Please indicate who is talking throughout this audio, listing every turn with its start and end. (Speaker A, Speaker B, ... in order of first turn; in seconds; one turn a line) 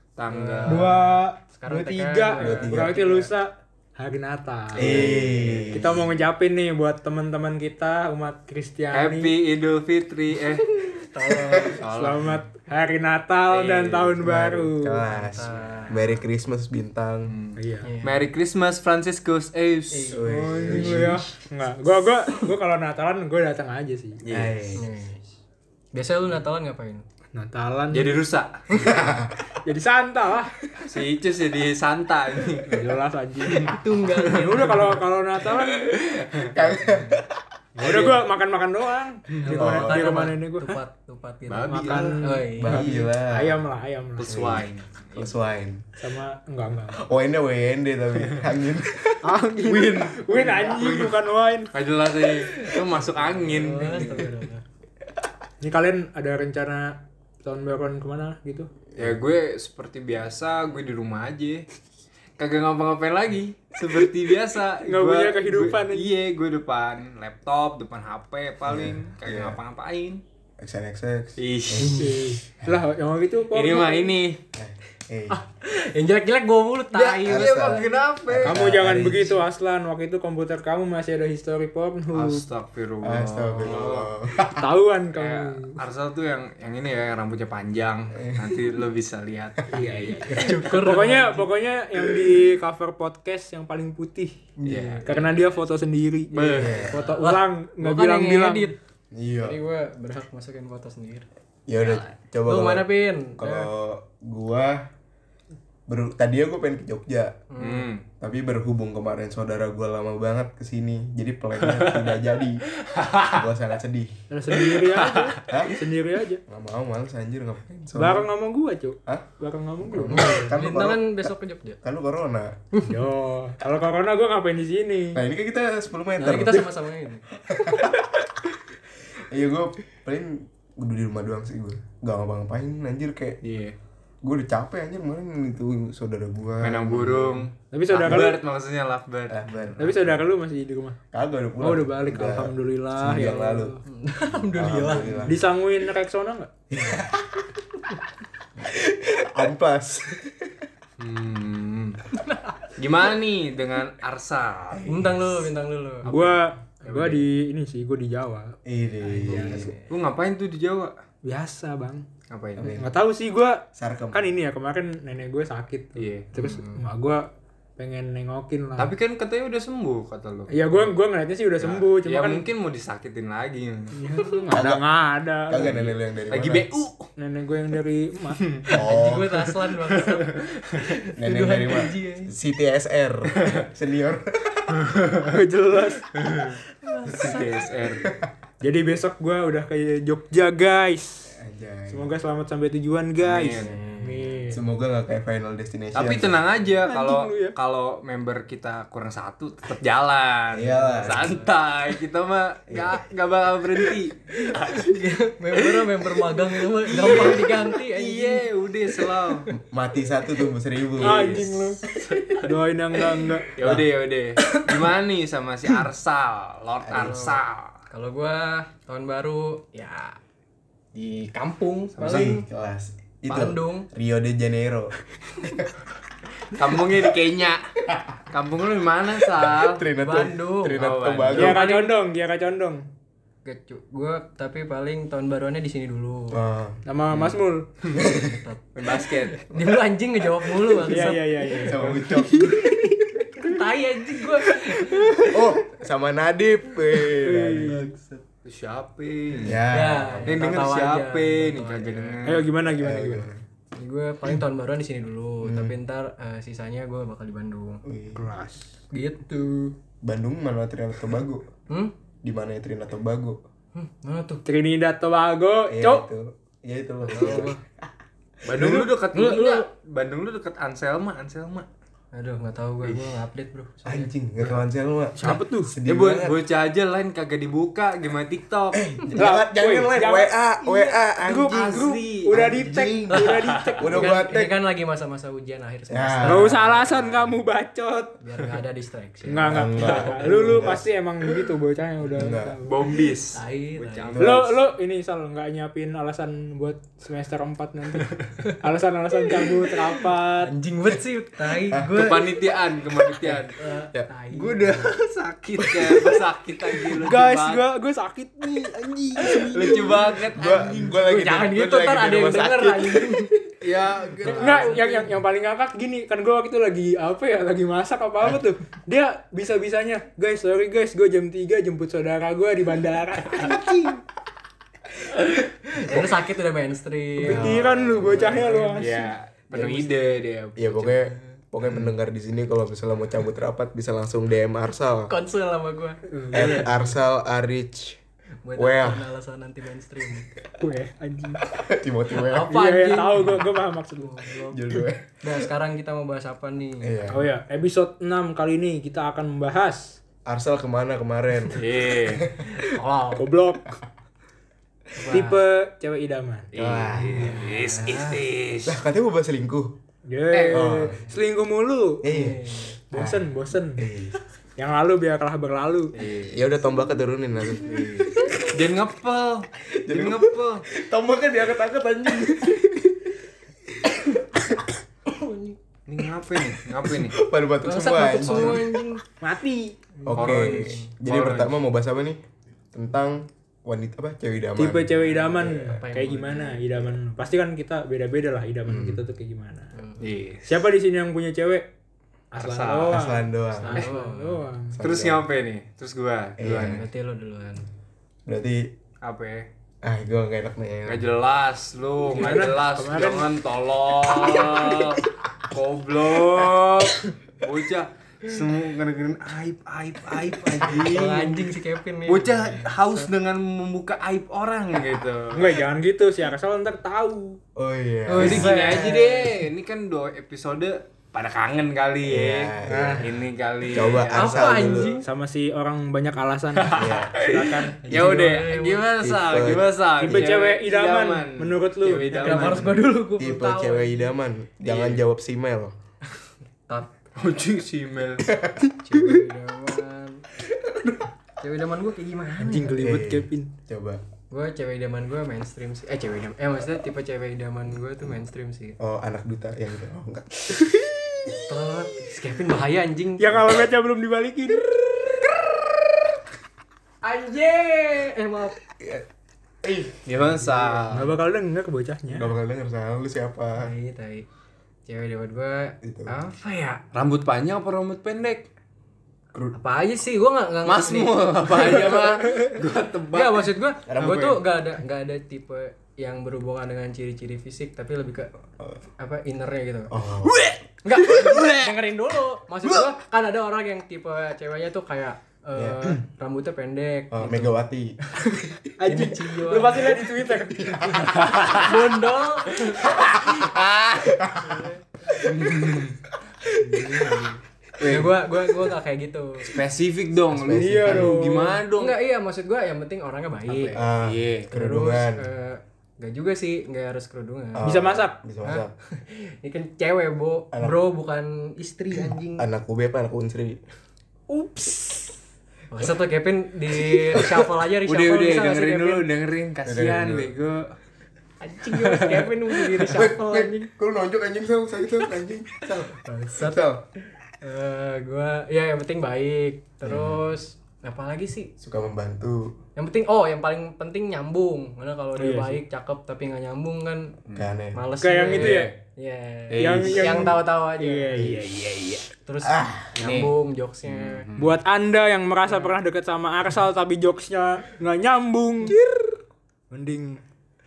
Speaker A: 0.2-1.0
Speaker B: 0.3-3.1
Speaker C: 0.7-9.3
Speaker D: 2.4-3.3
Speaker D: 4.8-6.1
Speaker A: 4.8-5.8
Speaker A: 8.9-10.7
Speaker B: 10.9-11.8
Speaker A: 11.7-12.4
Speaker C: 11.9-15.1
Speaker A: 13.5-14.2
Speaker D: 14.2-17.3
Speaker B: 15.1-16.2
Speaker A: 17.3-21.1
Speaker C: 17.6-17.9
Speaker B: 17.8-18.2
Speaker B: 19.9-21.1
Speaker D: 20.1-21.3
Speaker C: 20.3-24.2
Speaker A: 24.2-24.6
Speaker D: 24.3-24.9
Speaker B: 24.8-25.2
Speaker B: 25.9-27.0
Speaker C: 27.3-28.2
Speaker A: 27.9-28.6
Speaker B: 28.7-29.2
Speaker D: 28.8-29.4
Speaker C: 29.6-30.6
Speaker A: 30.8-32.9
Speaker C: 32.7-35.9
Speaker A: 33.5-34.8
Speaker B: 33.6-34.9
Speaker A: 35.7-36.5
Speaker D: 36.5-38.2
Speaker C: 37.8-40.8
Speaker D: 39.4-40.1
Speaker B: 39.5-43.0
Speaker A: 41.5-42.3
Speaker C: 41.7-44.4
Speaker D: 42.6-43.7
Speaker A: 44.2-45.4
Speaker D: 44.3-45.8
Speaker C: 46.0-47.0
Speaker D: 46.9-50.2
Speaker C: 49.2-51.7
Speaker A: 49.7-51.2
Speaker A: 51.7-54.2
Speaker B: 52.4-54.6
Speaker D: 54.0-54.3
Speaker C: 55.6-58.7
Speaker A: 59.0-61.6
Speaker A: 62.4-70.2
Speaker C: 64.8-66.1
Speaker D: 68.7-69.6
Speaker D: 70.6-72.8
Speaker A: 71.4-72.3
Speaker C: 71.8-74.1
Speaker A: 73.5-74.4
Speaker D: 74.5-75.4
Speaker B: 75.3-77.9
Speaker A: 76.9-78.6
Speaker D: 77.2-79.4
Speaker C: 78.5-82.4
Speaker A: 82.1-84.1
Speaker D: 83.0-84.7
Speaker C: 84.5-85.8
Speaker A: 85.1-90.9
Speaker D: 88.2-88.6
Speaker C: 89.7-94.4
Speaker B: 90.2-91.5
Speaker D: 92.0-92.4
Speaker B: 94.6-95.0
Speaker A: 94.7-95.5
Speaker D: 94.7-94.9
Speaker C: 95.0-98.7
Speaker A: 96.3-97.0
Speaker D: 96.6-97.0
Speaker B: 96.8-98.8
Speaker D: 99.1-99.6
Speaker B: 99.4-101.3
Speaker D: 101.7-104.9
Speaker B: 102.4-103.7
Speaker D: 105.9-107.3
Speaker B: 107.5-107.9
Speaker A: 107.6-108.0
Speaker D: 108.2-112.7
Speaker A: 111.6-112.2
Speaker A: 112.8-113.5
Speaker D: 113.3-114.2
Speaker C: 114.3-116.4
Speaker A: 114.7-115.5
Speaker D: 115.4-115.8
Speaker D: 116.5-118.3
Speaker C: 117.9-120.5
Speaker D: 119.8-121.3
Speaker B: 120.4-121.8
Speaker D: 121.8-122.5
Speaker C: 122.8-125.2
Speaker D: 125.1-126.7
Speaker B: 126.2-127.8
Speaker D: 127.3-133.4
Speaker A: 133.4-133.8
Speaker D: 134.2-138.3
Speaker A: 136.6-139.7
Speaker C: 137.7-138.4
Speaker D: 139.3-140.2
Speaker C: 139.8-141.0
Speaker D: 141.1-143.8
Speaker C: 141.6-143.8
Speaker B: 143.8-145.3
Speaker D: 144.5-145.4
Speaker C: 145.3-146.5
Speaker D: 146.7-147.6
Speaker D: 148.6-150.7
Speaker A: 151.0-152.0
Speaker B: 152.2-152.6
Speaker A: 152.8-155.0
Speaker D: 154.7-155.5
Speaker B: 154.9-156.3
Speaker A: 156.0-156.3
Speaker C: 156.1-158.6
Speaker D: 158.7-159.7
Speaker B: 159.0-159.9
Speaker C: 159.3-159.7
Speaker A: 159.9-160.9
Speaker C: 161.2-162.1
Speaker A: 162.3-162.8
Speaker D: 162.6-162.9
Speaker C: 162.8-167.2
Speaker D: 163.8-164.3
Speaker A: 166.0-166.3
Speaker B: 166.3-166.8
Speaker C: 167.8-168.9
Speaker A: 168.8-170.9
Speaker C: 170.5-172.4
Speaker A: 171.6-174.0
Speaker C: 173.9-176.0
Speaker D: 174.5-174.8
Speaker D: 175.5-176.7
Speaker A: 176.3-177.1
Speaker C: 177.2-178.4
Speaker A: 178.4-180.9
Speaker B: 178.7-182.3
Speaker D: 178.7-179.5
Speaker D: 181.2-184.8
Speaker A: 183.3-183.7
Speaker A: 184.7-185.3
Speaker C: 185.2-186.1
Speaker A: 186.2-188.1
Speaker B: 186.8-187.7
Speaker D: 188.0-188.3
Speaker C: 188.6-191.3
Speaker D: 191.3-192.2
Speaker C: 191.9-194.6
Speaker A: 193.2-193.8
Speaker B: 193.6-194.4
Speaker D: 194.5-196.4
Speaker A: 195.9-204.9
Speaker C: 196.8-197.6
Speaker D: 200.5-201.4
Speaker B: 200.8-201.5
Speaker D: 202.7-203.0
Speaker B: 204.7-208.5
Speaker A: 206.8-209.5
Speaker D: 207.0-207.5
Speaker B: 209.0-209.6
Speaker D: 209.6-211.5
Speaker A: 211.0-211.5
Speaker C: 211.0-211.8
Speaker C: 212.4-213.5
Speaker A: 213.6-217.8
Speaker D: 213.6-213.9
Speaker D: 216.8-217.2
Speaker B: 216.9-220.2
Speaker B: 220.9-222.4
Speaker A: 222.0-222.3
Speaker D: 222.0-225.8
Speaker B: 223.3-223.9
Speaker A: 226.5-227.6
Speaker A: 228.3-229.9
Speaker D: 229.3-231.7
Speaker B: 230.0-231.9
Speaker A: 230.8-231.6
Speaker C: 231.3-232.8
Speaker B: 233.4-236.4
Speaker D: 236.3-236.8
Speaker C: 236.9-237.7
Speaker D: 237.9-238.4
Speaker B: 237.9-242.5
Speaker A: 238.8-239.5
Speaker C: 240.8-242.9
Speaker D: 241.5-243.3
Speaker B: 243.3-245.4
Speaker D: 245.2-248.2
Speaker C: 247.2-247.9
Speaker A: 248.4-249.6
Speaker D: 249.4-250.4
Speaker B: 249.7-252.3
Speaker A: 250.2-252.5
Speaker C: 252.2-253.3
Speaker D: 252.6-253.4
Speaker B: 253.8-257.8
Speaker D: 255.4-255.8
Speaker D: 257.9-258.3
Speaker C: 258.1-258.7
Speaker B: 258.9-259.8
Speaker D: 260.0-261.5
Speaker D: 262.2-263.4
Speaker B: 263.7-264.4
Speaker C: 264.5-266.1
Speaker D: 265.7-267.9
Speaker B: 267.1-267.6
Speaker D: 268.4-268.9
Speaker A: 268.4-271.7
Speaker B: 268.6-269.7
Speaker B: 272.1-274.6
Speaker A: 272.8-273.2
Speaker D: 273.9-276.4
Speaker C: 275.2-275.7
Speaker A: 275.9-278.8
Speaker D: 278.7-283.3
Speaker C: 279.1-284.2
Speaker A: 281.5-282.4
Speaker B: 283.1-287.2
Speaker D: 283.8-284.6
Speaker D: 285.9-286.6
Speaker C: 286.2-288.2
Speaker B: 288.2-290.8
Speaker C: 289.3-292.8
Speaker D: 289.4-290.9
Speaker D: 292.1-292.6
Speaker A: 292.7-294.5
Speaker B: 293.3-294.3
Speaker D: 294.1-294.5
Speaker C: 294.2-300.5
Speaker B: 299.2-302.6
Speaker D: 301.7-302.1
Speaker A: 301.9-303.6
Speaker B: 303.2-304.9
Speaker A: 304.3-307.6
Speaker B: 305.6-306.2
Speaker C: 306.9-309.9
Speaker A: 309.3-311.0
Speaker B: 309.3-313.3
Speaker D: 309.6-313.5
Speaker A: 313.6-315.1
Speaker B: 314.2-315.1
Speaker C: 314.2-324.0
Speaker B: 325.7-329.8
Speaker C: 327.2-329.0
Speaker D: 327.3-328.3
Speaker A: 328.8-331.1
Speaker D: 329.5-329.9
Speaker D: 330.6-335.1
Speaker B: 335.1-336.0
Speaker C: 336.1-336.9
Speaker D: 336.3-338.0
Speaker B: 338.4-340.3
Speaker D: 338.6-339.1
Speaker C: 340.6-341.4
Speaker D: 341.5-342.6
Speaker B: 342.2-346.9
Speaker C: 342.5-344.2
Speaker D: 344.5-345.5
Speaker D: 346.8-347.3
Speaker C: 347.1-350.0
Speaker D: 350.3-352.7
Speaker A: 351.5-352.3
Speaker B: 352.5-353.3
Speaker C: 353.2-353.7
Speaker B: 354.9-355.4
Speaker C: 355.1-356.5
Speaker A: 356.5-358.8
Speaker D: 356.6-357.4
Speaker B: 357.1-358.2
Speaker D: 358.6-359.8
Speaker C: 360.1-362.1
Speaker A: 360.3-360.7
Speaker D: 360.5-361.1
Speaker D: 362.0-364.2
Speaker B: 362.1-362.8
Speaker C: 362.9-363.8
Speaker C: 364.6-365.9
Speaker A: 365.9-366.4
Speaker B: 366.0-366.3
Speaker D: 366.2-368.4
Speaker B: 367.6-368.2
Speaker A: 368.5-370.7
Speaker D: 369.7-373.2
Speaker D: 373.7-374.8
Speaker B: 375.1-375.6
Speaker A: 375.9-377.2
Speaker D: 376.8-378.8
Speaker B: 377.6-379.0
Speaker C: 379.2-380.4
Speaker D: 380.1-382.2
Speaker A: 380.1-381.6
Speaker B: 380.2-380.9
Speaker D: 382.7-385.8
Speaker C: 384.6-389.7
Speaker B: 385.6-386.6
Speaker D: 388.7-389.0
Speaker B: 389.8-390.0
Speaker A: 390.0-390.6
Speaker C: 390.5-391.7
Speaker C: 392.3-394.8
Speaker A: 392.4-393.0
Speaker D: 392.9-393.9
Speaker B: 393.5-394.5
Speaker D: 394.7-395.3
Speaker A: 394.8-396.8
Speaker D: 396.4-396.9
Speaker B: 396.4-397.7
Speaker D: 398.3-398.7
Speaker A: 399.0-399.5
Speaker D: 399.8-401.1
Speaker A: 400.9-411.5
Speaker C: 402.1-403.3
Speaker B: 410.6-412.8
Speaker A: 412.1-415.6
Speaker C: 415.3-417.4
Speaker D: 417.6-419.3
Speaker B: 418.1-419.4
Speaker A: 418.2-424.9
Speaker D: 422.0-425.0
Speaker C: 422.7-423.1
Speaker B: 424.1-425.1
Speaker C: 425.0-427.9
Speaker A: 426.6-432.8
Speaker D: 426.8-427.1
Speaker B: 427.8-428.9
Speaker D: 429.0-430.3
Speaker C: 430.0-432.6
Speaker B: 431.9-434.1
Speaker D: 433.2-435.8
Speaker A: 434.6-435.0
Speaker B: 436.7-436.9
Speaker A: 437.2-438.3
Speaker D: 438.3-439.3
Speaker B: 438.8-440.2
Speaker D: 440.5-441.1
Speaker B: 441.4-442.8
Speaker C: 442.4-443.5
Speaker D: 442.8-444.0
Speaker B: 444.3-448.8
Speaker D: 448.8-451.6
Speaker B: 451.3-453.4
Speaker C: 453.2-454.7
Speaker D: 454.7-456.1
Speaker B: 457.0-458.6
Speaker D: 458.8-459.1
Speaker D: 459.6-460.1
Speaker A: 460.1-461.1
Speaker C: 460.9-462.3
Speaker D: 462.1-463.7
Speaker B: 463.6-464.2
Speaker B: 464.9-466.8
Speaker D: 465.8-466.1
Speaker A: 466.9-468.5
Speaker B: 469.5-472.5
Speaker A: 470.6-473.6
Speaker B: 473.1-478.3
Speaker D: 473.9-474.4
Speaker B: 479.0-479.9
Speaker D: 479.9-480.6
Speaker A: 480.2-481.7
Speaker B: 480.8-490.3
Speaker D: 482.6-482.9
Speaker D: 485.6-485.9
Speaker D: 487.1-488.0
Speaker D: 488.5-489.1
Speaker C: 488.8-490.9
Speaker D: 490.6-491.1
Speaker B: 490.9-493.0
Speaker A: 491.1-492.0
Speaker A: 492.6-494.3
Speaker D: 492.9-493.5
Speaker D: 494.1-495.7
Speaker B: 494.4-494.8
Speaker A: 495.2-496.0
Speaker D: 496.4-497.1
Speaker B: 496.6-499.6
Speaker A: 497.8-498.2
Speaker A: 499.4-502.0
Speaker D: 500.3-501.2
Speaker C: 500.5-501.6
Speaker B: 501.7-503.8
Speaker A: 503.5-504.5
Speaker D: 503.7-505.3
Speaker B: 504.5-507.7
Speaker D: 507.6-508.7
Speaker C: 507.6-508.2
Speaker B: 508.4-512.5
Speaker D: 512.0-513.6
Speaker B: 514.3-515.1
Speaker B: 515.7-519.1
Speaker D: 517.1-517.4
Speaker A: 517.9-520.8
Speaker D: 519.6-520.3
Speaker B: 521.4-523.7
Speaker A: 521.7-523.0
Speaker D: 522.9-526.8
Speaker B: 525.8-526.7
Speaker B: 527.4-531.5
Speaker D: 529.9-530.3
Speaker D: 531.6-532.6
Speaker B: 532.8-537.2
Speaker C: 535.2-535.6
Speaker A: 537.3-537.5
Speaker D: 537.4-537.9
Speaker B: 537.7-541.4
Speaker C: 538.0-538.7
Speaker A: 538.3-538.7
Speaker A: 539.5-540.3
Speaker C: 539.6-542.1
Speaker B: 542.2-544.3
Speaker D: 542.4-543.0
Speaker A: 543.0-543.3
Speaker A: 543.9-544.6
Speaker C: 544.4-548.8
Speaker D: 548.7-549.2
Speaker C: 549.7-550.2